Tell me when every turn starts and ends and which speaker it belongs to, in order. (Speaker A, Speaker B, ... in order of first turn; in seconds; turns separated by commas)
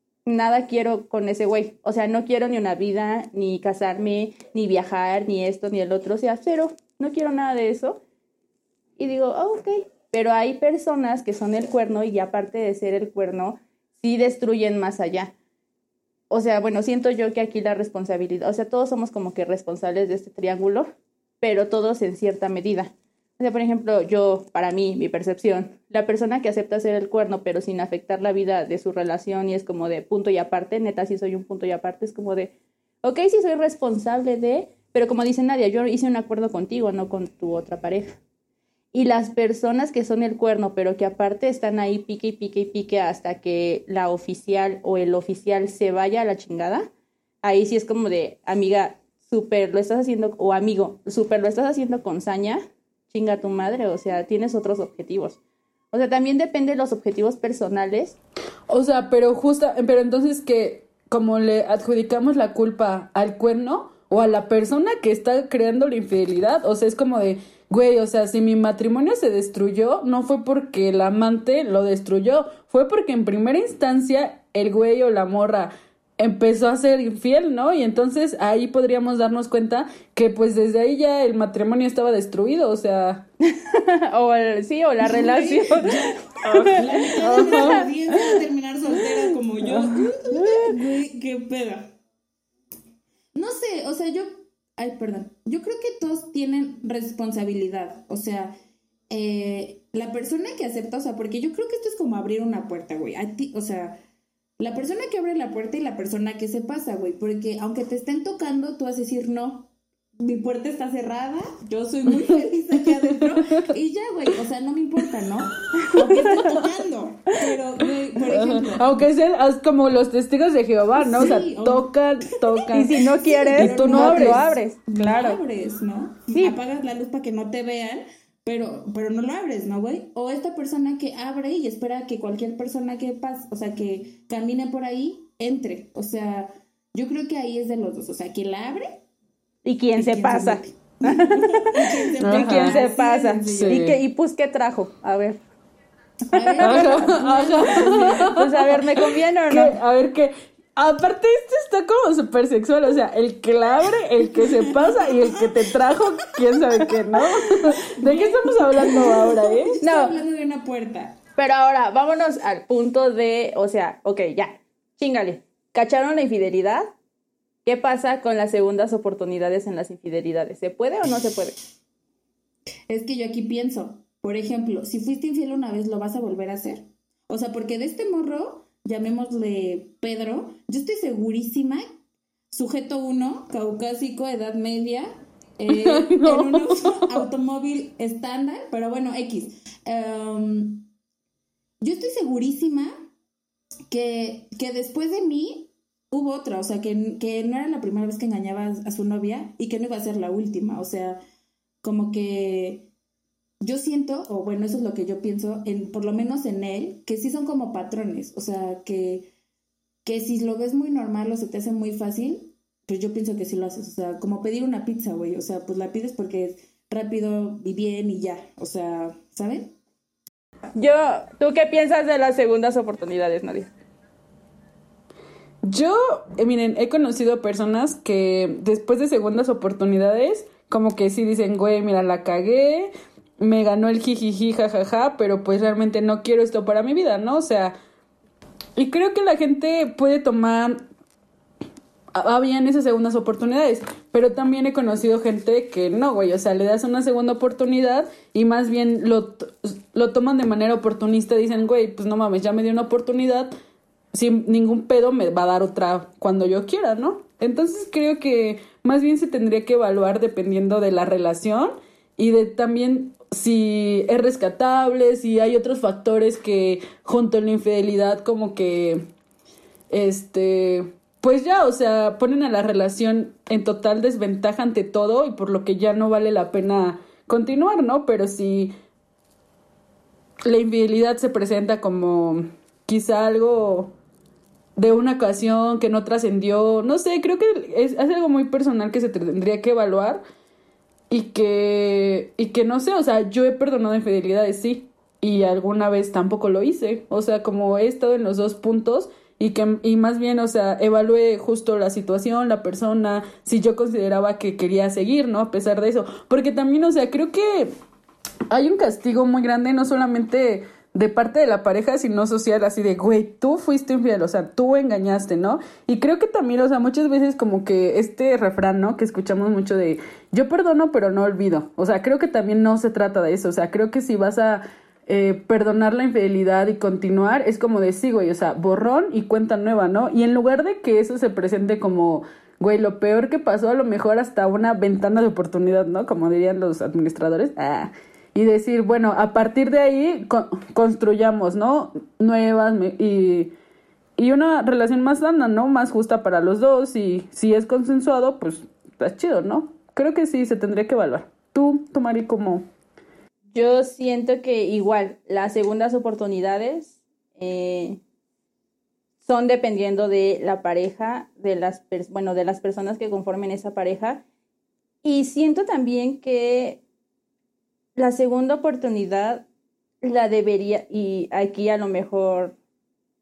Speaker A: 0.2-8.0, Speaker A: 9.0-15.3, Speaker A: 16.3-20.9, Speaker A: 21.4-38.2, Speaker A: 38.9-46.9, Speaker A: 47.4-55.4, Speaker A: 55.9-58.2, Speaker B: 58.7-83.3, Speaker A: 83.4-88.4, Speaker C: 85.0-91.9, Speaker B: 86.5-87.9, Speaker A: 89.0-89.3, Speaker B: 89.6-90.1, Speaker A: 90.3-90.8, Speaker C: 93.3-98.6, Speaker C: 99.1-104.0, Speaker C: 104.6-119.0, Speaker B: 112.2-113.7, Speaker A: 115.8-116.5, Speaker B: 118.3-123.0, Speaker C: 121.0-139.0, Speaker A: 122.7-125.4, Speaker B: 123.5-124.5, Speaker A: 139.6-145.4, Speaker C: 139.9-143.9, Speaker B: 142.2-142.8, Speaker B: 143.5-144.0, Speaker C: 146.2-148.3, Speaker A: 146.3-146.8, Speaker B: 146.6-148.8, Speaker A: 147.9-149.8, Speaker B: 149.5-159.8, Speaker C: 154.4-161.2, Speaker A: 159.8-160.2, Speaker A: 161.4-166.9, Speaker A: 167.6-171.6, Speaker C: 172.9-181.8, Speaker C: 182.5-190.9, Speaker B: 185.7-187.2, Speaker C: 191.8-192.9, Speaker C: 193.9-201.2, Speaker C: 201.8-202.9, Speaker C: 203.6-209.3, Speaker C: 210.0-219.7, Speaker A: 220.7-223.7, Speaker B: 225.6-237.7, Speaker B: 238.8-240.8, Speaker B: 242.1-253.5, Speaker B: 254.1-269.1, Speaker B: 269.9-278.7, Speaker B: 280.4-283.9, Speaker B: 284.8-290.2, Speaker B: 291.1-307.7, Speaker B: 308.5-343.5, Speaker B: 344.2-352.6, Speaker A: 353.5-358.0, Speaker A: 359.2-364.2, Speaker A: 365.0-366.8, Speaker A: 367.9-369.4, Speaker A: 370.0-372.6